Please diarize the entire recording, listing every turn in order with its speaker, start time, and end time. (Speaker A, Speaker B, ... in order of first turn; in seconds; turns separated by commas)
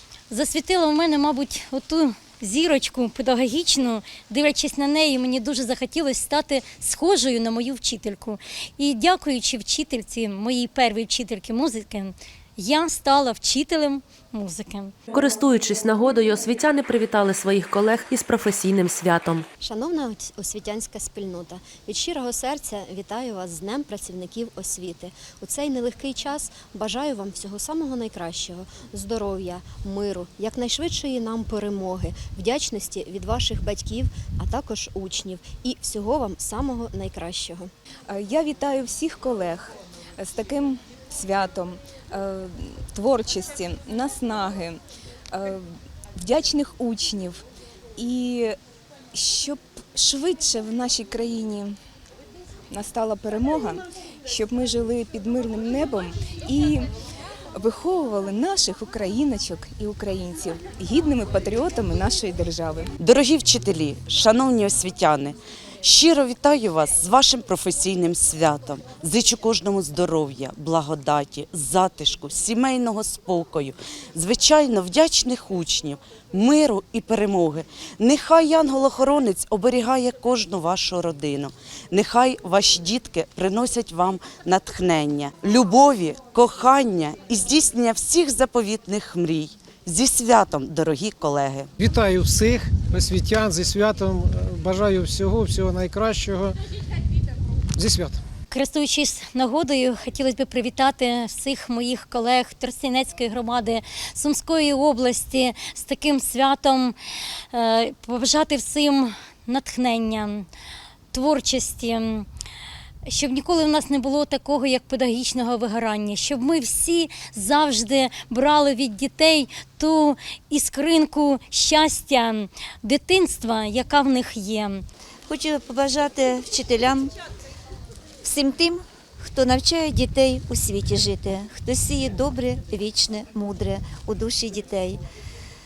Speaker A: 0.3-14.9, Speaker B: 15.1-19.5, Speaker C: 19.6-37.7, Speaker D: 38.1-44.8, Speaker D: 45.3-47.4, Speaker D: 48.0-48.5, Speaker D: 49.1-51.7, Speaker D: 52.7-56.9, Speaker D: 57.5-62.9, Speaker E: 63.0-91.7, Speaker F: 91.8-96.5, Speaker F: 97.8-98.2, Speaker A: 98.5-107.0, Speaker A: 107.5-110.5, Speaker A: 111.1-112.3, Speaker A: 113.1-124.8, Speaker G: 125.3-127.1, Speaker G: 128.2-135.0